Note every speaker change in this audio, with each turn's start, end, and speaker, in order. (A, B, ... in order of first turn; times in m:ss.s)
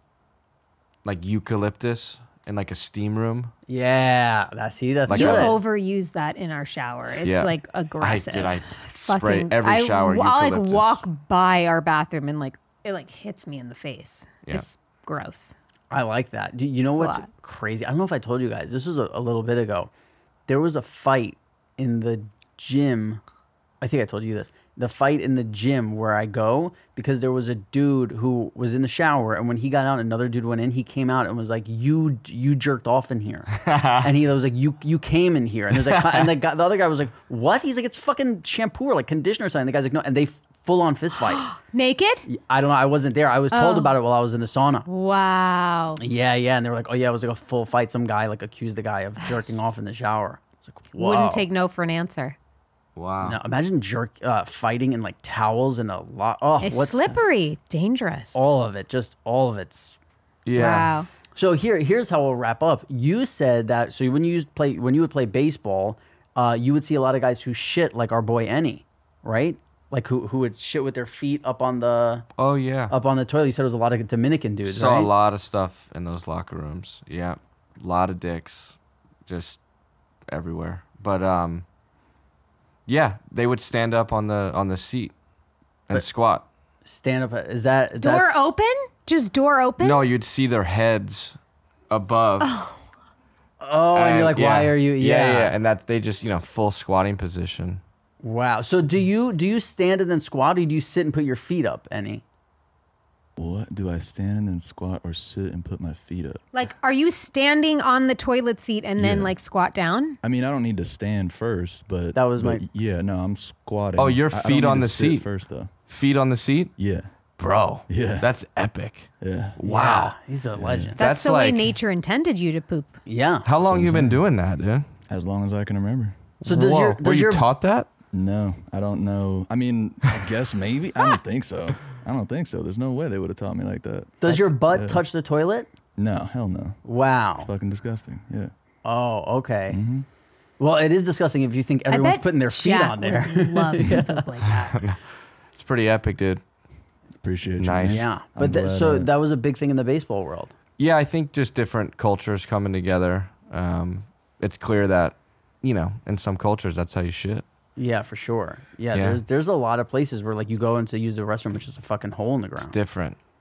0:01.0-0:03.5 A
0:03.7-0:05.6 B
0:05.1-0:05.6 A
0:05.1-0:15.5 C
0:07.2-0:11.0 A
0:15.9-0:19.9 B
0:17.0-0:17.3 C
0:20.5-0:23.2 B
0:23.8-0:41.4 B
0:33.6-0:34.0 A
0:35.8-0:36.3 A
0:41.3-0:42.2 C
0:42.3-0:44.8 B
0:43.5-0:43.9 C
0:44.9-0:46.0 C
0:46.0-0:51.4 B
0:51.0-0:52.4 C
0:53.0-0:53.4 A
0:53.2-0:57.2 B
0:56.6-0:58.4 C
0:58.3-1:00.0 B
1:00.4-1:00.9 A
1:00.5-1:12.2 B
1:00.5-1:01.1 C
1:12.4-1:12.9 A
1:12.9-1:15.1 B
1:14.7-1:18.7 A
1:19.2-1:19.6 A
1:20.3-1:21.6 A
1:22.9-1:25.1 A
1:25.9-1:26.4 A
1:26.8-1:28.4 B
1:28.0-1:30.0 C
1:29.8-1:31.4 A
1:31.9-1:32.5 A
1:32.4-1:32.8 C
1:33.6-1:35.5 B
1:33.9-1:37.8 A
1:38.2-1:42.2 B
1:43.4-1:46.4 D
1:46.5-1:50.2 C
1:49.0-1:49.3 D
1:50.2-1:55.7 D
1:52.1-1:52.6 B
1:54.0-1:55.3 A
1:55.8-1:56.7 A
1:56.8-1:57.1 D
1:57.4-2:00.1 A
1:57.9-1:58.3 D
1:59.2-1:59.6 D
1:59.6-2:00.9 B
2:00.6-2:00.9 D
2:01.0-2:02.9 C
2:01.0-2:01.7 A
2:03.0-2:03.4 B
2:03.4-2:04.8 A
2:03.6-2:04.2 D
2:05.1-2:06.1 D
2:06.4-2:07.4 B
2:06.4-2:07.9 A
2:08.1-2:15.0 D
2:14.2-2:15.7 B
2:16.0-2:16.8 D
2:16.8-2:17.5 B
2:17.4-2:18.5 D
2:18.8-2:19.8 B
2:19.7-2:20.0 D
2:20.6-2:24.2 B
2:21.9-2:24.8 C
2:24.5-2:25.0 A
2:25.5-2:26.4 A
2:27.2-2:29.1 D
2:27.6-2:28.0 A
2:27.9-2:30.5 B
2:30.8-2:37.4 A
2:37.8-2:42.7 B
2:38.9-2:39.2 A
2:42.6-2:43.2 A